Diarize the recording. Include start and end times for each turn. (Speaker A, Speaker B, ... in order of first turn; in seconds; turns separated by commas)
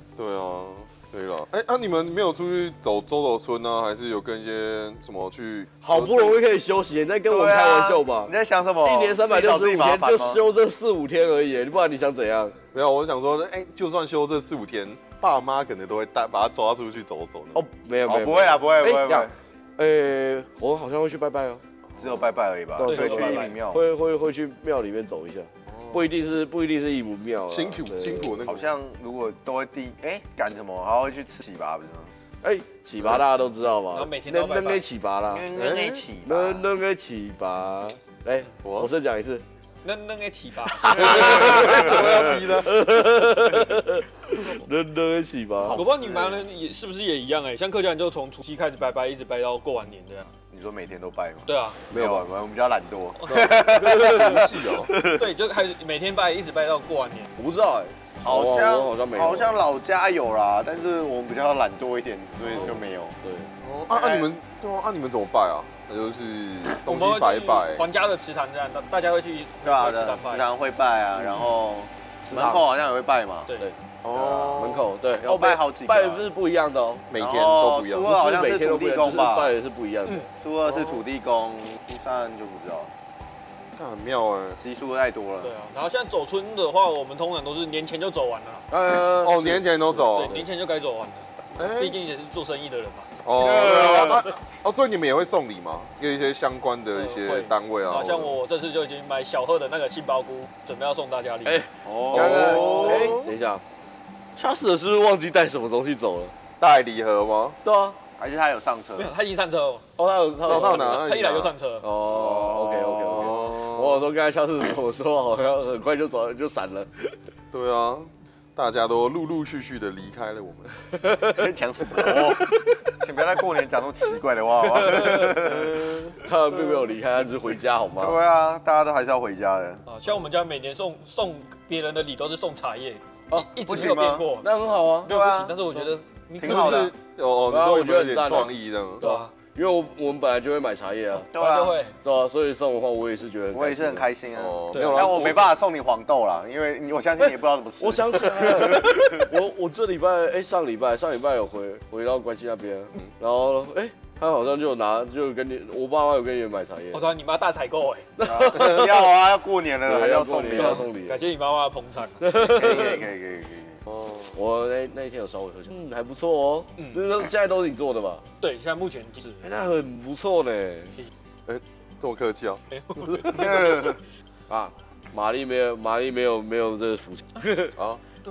Speaker A: 0.2-6.4, Speaker B: 5.8-8.3, Speaker C: 7.3-10.4, Speaker B: 8.8-12.6, Speaker A: 12.7-17.6, Speaker B: 17.5-21.6, Speaker C: 18.0-19.3, Speaker C: 22.0-23.8, Speaker B: 22.8-28.4, Speaker D: 22.8-23.5, Speaker A: 25.7-26.0, Speaker A: 27.5-28.7, Speaker C: 28.4-32.1, Speaker B: 32.4-35.5, Speaker D: 33.9-34.8, Speaker C: 35.3-36.7, Speaker A: 35.5-36.0, Speaker B: 36.2-39.4, Speaker A: 38.6-38.9, Speaker D: 39.8-42.0, Speaker B: 40.8-45.8, Speaker A: 40.9-43.7, Speaker C: 45.6-46.4, Speaker D: 45.7-50.3, Speaker C: 50.5-54.7, Speaker D: 51.5-51.8, Speaker B: 51.9-52.3, Speaker D: 53.2-53.6, Speaker B: 53.3-55.2, Speaker A: 53.8-54.9, Speaker D: 55.0-57.3, Speaker B: 57.4-59.6, Speaker C: 58.2-63.2, Speaker B: 62.6-63.5, Speaker A: 63.6-67.8, Speaker C: 63.9-64.3, Speaker D: 66.8-70.5, Speaker C: 69.6-73.5, Speaker B: 72.2-72.6, Speaker A: 74.0-74.9, Speaker C: 74.1-76.3, Speaker B: 74.5-77.0, Speaker A: 77.1-78.2, Speaker C: 77.1-79.5, Speaker B: 78.0-80.2, Speaker C: 80.3-82.9, Speaker A: 83.8-84.6, Speaker C: 84.6-85.5, Speaker D: 85.4-88.7, Speaker B: 88.7-89.7, Speaker A: 89.2-90.4, Speaker D: 90.0-93.1, Speaker A: 91.6-92.0, Speaker A: 93.2-98.4, Speaker C: 93.4-94.2, Speaker D: 93.6-94.3, Speaker D: 97.0-101.7, Speaker B: 101.4-103.6, Speaker C: 101.8-103.1, Speaker A: 102.1-103.3, Speaker D: 102.5-103.0, Speaker B: 104.3-106.3, Speaker A: 106.6-107.6, Speaker B: 107.6-108.0, Speaker C: 108.2-109.1, Speaker D: 109.0-109.8, Speaker B: 110.0-111.0, Speaker A: 110.4-111.5, Speaker D: 110.5-111.9, Speaker B: 111.8-117.2, Speaker C: 112.0-113.4, Speaker A: 113.1-114.0, Speaker A: 117.5-120.7, Speaker B: 121.0-121.4, Speaker C: 121.3-126.1, Speaker B: 124.7-128.2, Speaker C: 128.0-129.8, Speaker D: 129.9-134.5, Speaker B: 133.3-133.8, Speaker C: 133.7-134.3, Speaker B: 134.4-135.1, Speaker C: 135.0-135.6, Speaker D: 135.1-136.9, Speaker C: 136.4-136.9, Speaker A: 136.4-139.0, Speaker B: 137.5-141.3, Speaker D: 139.0-139.3, Speaker C: 141.3-141.8, Speaker D: 141.3-141.9, Speaker B: 142.0-144.1, Speaker C: 143.5-149.1, Speaker A: 144.3-145.5, Speaker D: 144.7-145.3, Speaker B: 147.8-157.0, Speaker D: 156.9-158.1, Speaker B: 158.2-159.1, Speaker C: 158.2-160.9, Speaker B: 159.8-161.2, Speaker D: 160.5-162.3, Speaker B: 162.2-163.0, Speaker C: 162.3-163.8, Speaker B: 164.3-168.2, Speaker D: 166.8-167.0, Speaker D: 168.4-169.4, Speaker B: 169.4-170.9, Speaker A: 171.4-173.6, Speaker D: 172.7-173.9, Speaker C: 173.3-174.0, Speaker B: 174.5-177.7, Speaker A: 177.8-178.0